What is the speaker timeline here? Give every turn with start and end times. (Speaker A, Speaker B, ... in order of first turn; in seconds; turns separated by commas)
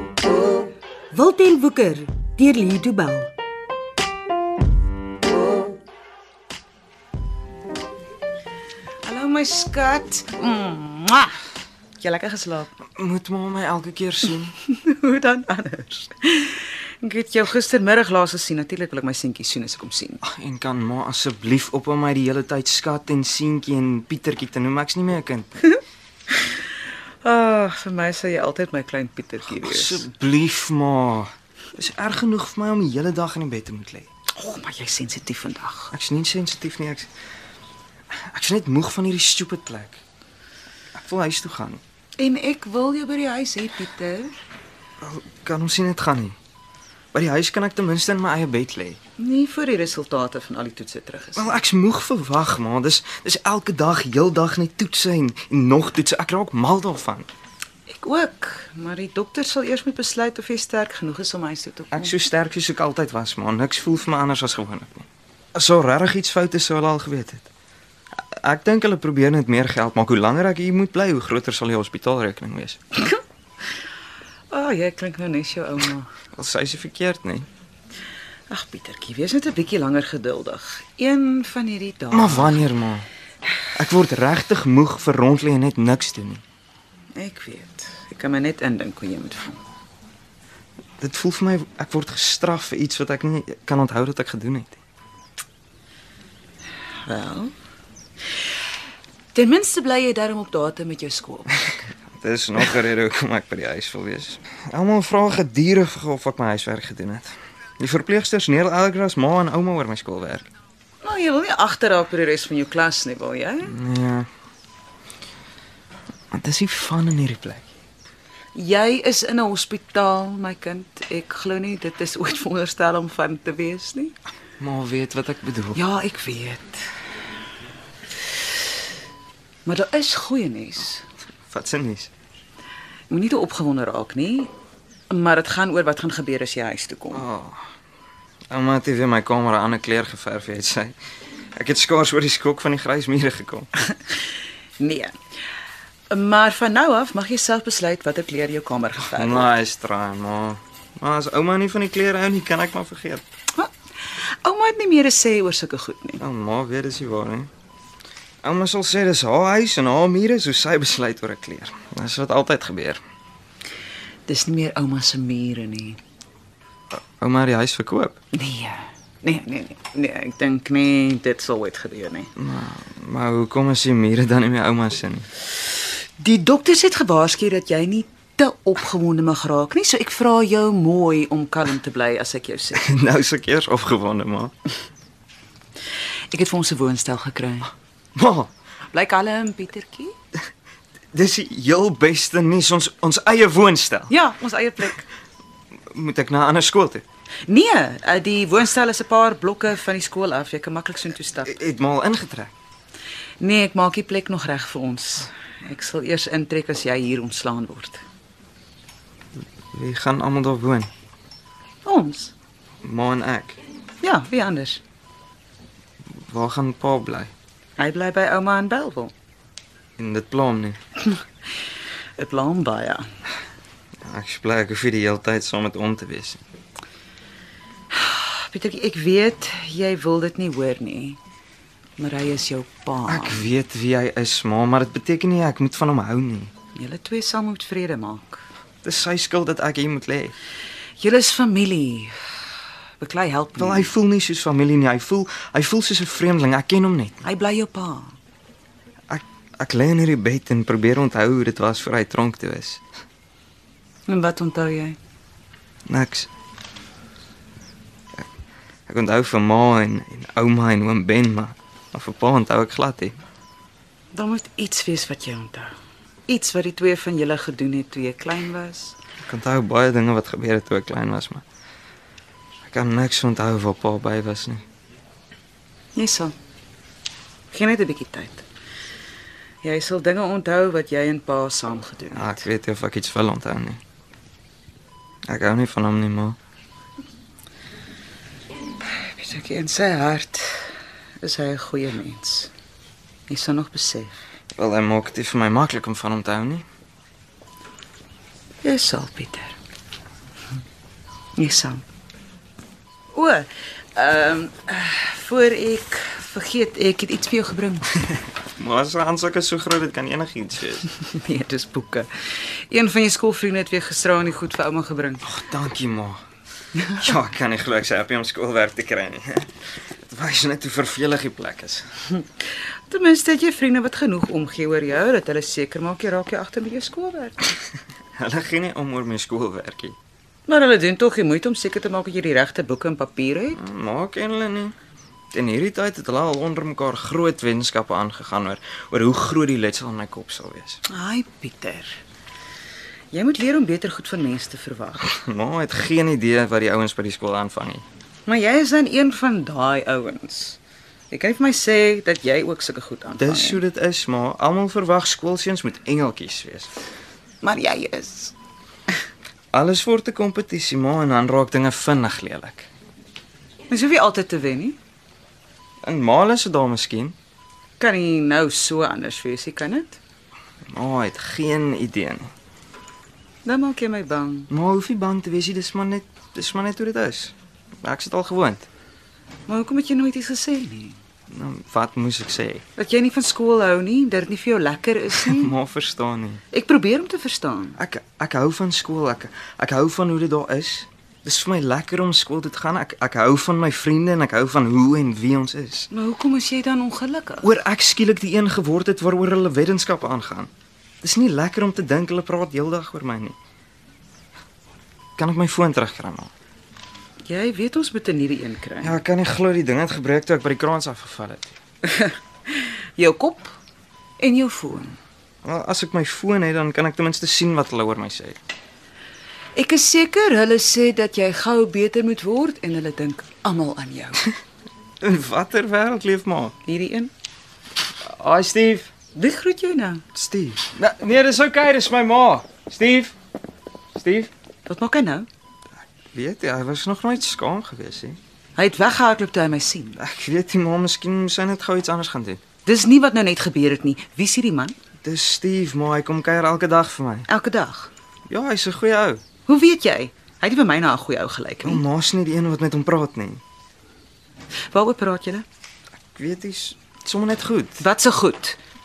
Speaker A: 1.1-3.3, Speaker B: 9.0-11.4, Speaker B: 12.0-12.7, Speaker C: 13.0-14.5, Speaker B: 14.6-20.2, Speaker C: 20.2-25.5, Speaker B: 26.3-26.6, Speaker B: 27.2-30.1, Speaker C: 29.5-34.1, Speaker B: 34.3-35.9, Speaker C: 35.9-37.1, Speaker C: 38.1-40.0, Speaker C: 40.9-41.8, Speaker B: 42.2-44.4, Speaker C: 45.0-46.4, Speaker C: 47.1-49.0, Speaker B: 49.2-51.6, Speaker C: 51.4-57.3, Speaker B: 57.9-62.1, Speaker C: 61.9-67.5, Speaker C: 68.2-72.9, Speaker B: 74.5-76.1, Speaker C: 76.3-77.5, Speaker B: 78.5-82.7, Speaker C: 82.1-83.1, Speaker C: 83.7-86.4, Speaker B: 87.1-89.6, Speaker C: 91.0-94.8, Speaker B: 97.0-97.5, Speaker B: 99.3-101.6, Speaker C: 102.1-110.5, Speaker B: 111.0-113.7, Speaker C: 113.7-114.3, Speaker C: 116.3-117.7, Speaker B: 118.5-124.2, Speaker C: 124.6-125.8, Speaker B: 125.7-126.8, Speaker B: 129.6-131.0, Speaker C: 131.5-132.1, Speaker B: 133.1-134.5, Speaker B: 135.1-137.2, Speaker C: 137.1-137.6, Speaker C: 138.5-140.9, Speaker C: 141.6-143.7, Speaker B: 144.8-145.2, Speaker B: 146.1-149.5, Speaker C: 149.0-153.2, Speaker B: 153.5-156.2, Speaker C: 156.2-157.5, Speaker C: 158.4-163.0, Speaker B: 164.2-166.0, Speaker C: 167.0-168.2, Speaker B: 168.3-172.3, Speaker C: 172.3-175.3, Speaker B: 176.2-182.9, Speaker C: 182.7-184.5, Speaker B: 186.3-187.7, Speaker C: 188.1-188.5, Speaker B: 188.9-190.1, Speaker C: 191.1-194.1, Speaker B: 194.1-195.1, Speaker C: 195.9-197.0, Speaker B: 197.5-201.6, Speaker C: 201.4-202.5, Speaker B: 203.4-208.0, Speaker C: 209.7-210.9, Speaker B: 211.8-212.3, Speaker C: 212.8-213.6, Speaker B: 214.0-214.8, Speaker C: 216.2-217.3, Speaker B: 217.8-219.1, Speaker C: 220.0-220.8, Speaker B: 222.2-223.1, Speaker C: 224.0-226.4, Speaker B: 227.9-231.2, Speaker B: 232.0-233.4, Speaker C: 233.1-236.5, Speaker B: 236.7-238.4, Speaker C: 238.8-240.3, Speaker B: 241.0-242.2, Speaker B: 243.0-243.9, Speaker C: 243.6-247.2, Speaker B: 247.2-248.1, Speaker C: 249.1-252.8, Speaker B: 254.1-255.0, Speaker C: 255.9-256.3, Speaker C: 258.9-263.2, Speaker B: 264.1-265.7, Speaker B: 266.3-268.9, Speaker C: 269.2-271.4, Speaker C: 272.6-274.6, Speaker B: 275.9-276.3, Speaker B: 277.5-278.4, Speaker B: 279.6-282.4, Speaker C: 282.1-283.8, Speaker C: 285.3-286.4, Speaker B: 288.9-292.5, Speaker B: 293.3-294.2, Speaker C: 294.6-296.6, Speaker B: 298.6-299.6, Speaker B: 301.4-301.8, Speaker B: 303.1-308.1, Speaker C: 308.6-310.9, Speaker B: 311.0-315.2, Speaker C: 315.2-316.2, Speaker B: 316.8-317.0, Speaker C: 316.9-319.5, Speaker C: 320.1-321.9, Speaker B: 322.9-327.5, Speaker C: 328.1-329.9, Speaker B: 330.5-333.6, Speaker C: 333.5-334.7, Speaker C: 335.3-340.8, Speaker B: 340.9-342.0, Speaker B: 343.1-345.1, Speaker C: 345.0-347.8, Speaker B: 348.2-350.6, Speaker B: 351.1-353.6, Speaker C: 353.2-356.7, Speaker B: 357.4-358.3, Speaker C: 359.5-362.7, Speaker B: 363.7-364.8, Speaker C: 365.8-367.1, Speaker B: 367.8-370.0, Speaker C: 370.7-372.3, Speaker B: 373.4-374.5, Speaker C: 374.5-378.7, Speaker B: 379.5-381.0, Speaker C: 381.3-382.6, Speaker B: 382.8-385.5, Speaker C: 385.2-386.4, Speaker B: 386.5-387.8, Speaker C: 387.8-395.9, Speaker B: 395.9-397.5, Speaker C: 397.4-400.5, Speaker C: 401.0-403.4, Speaker C: 405.2-406.3, Speaker B: 407.2-409.0, Speaker C: 408.8-411.6, Speaker B: 411.8-413.5, Speaker B: 414.2-415.0, Speaker C: 415.4-418.4, Speaker B: 419.5-424.3, Speaker C: 425.0-426.6, Speaker B: 426.6-427.1, Speaker C: 428.0-428.9, Speaker B: 429.1-430.0, Speaker C: 430.1-433.1, Speaker C: 433.9-434.3, Speaker B: 434.6-435.3, Speaker C: 436.1-438.2, Speaker B: 438.6-440.0, Speaker C: 440.0-442.4, Speaker B: 442.6-444.8, Speaker C: 445.0-447.3, Speaker B: 447.3-447.9, Speaker C: 448.3-449.2, Speaker B: 449.4-451.8, Speaker C: 451.6-453.4, Speaker B: 454.7-455.4, Speaker C: 456.1-457.8, Speaker B: 457.8-458.6